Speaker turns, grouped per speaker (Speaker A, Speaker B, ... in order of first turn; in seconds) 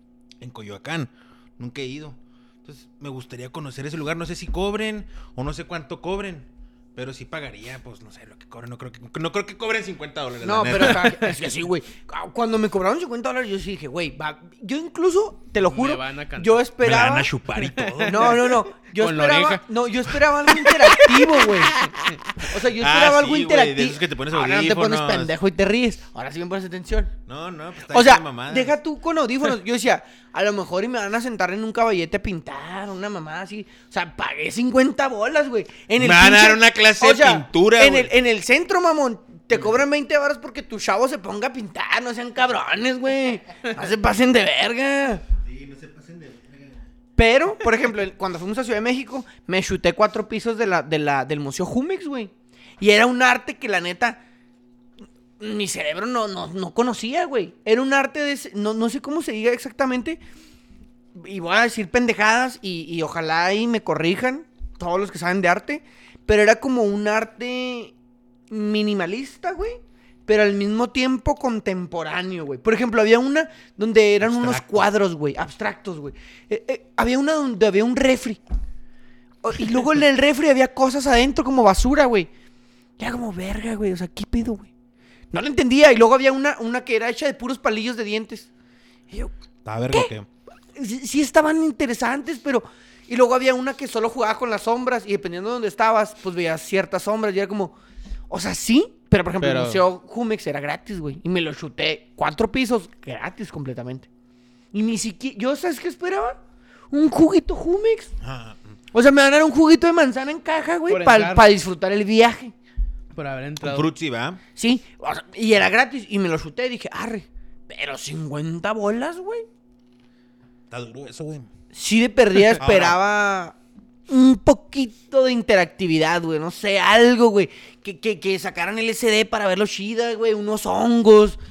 Speaker A: 0.4-11.3, 16.8-18.5, 22.4-25.3, 27.3-28.8, 36.0-38.1, 45.4-46.9, 74.2-74.9, 89.7-90.3, 108.2-108.8, 113.6-114.4, 120.7-121.5, 122.6-123.0
Speaker B: 10.4-17.3, 18.1-27.1, 27.9-45.2, 47.2-54.2, 55.4-60.2, 61.2-67.9, 68.5-78.4, 79.4-82.3, 83.0-84.7, 85.3-88.5, 89.1-89.4, 90.8-97.8, 98.3-104.1, 104.7-106.4, 106.9-108.1, 108.9-112.5, 114.6-119.4, 121.7-123.6, 124.1-131.4
Speaker C: 15.6-16.6, 17.6-19.6, 20.6-21.4, 99.4-99.8, 110.9-111.5, 113.1-113.9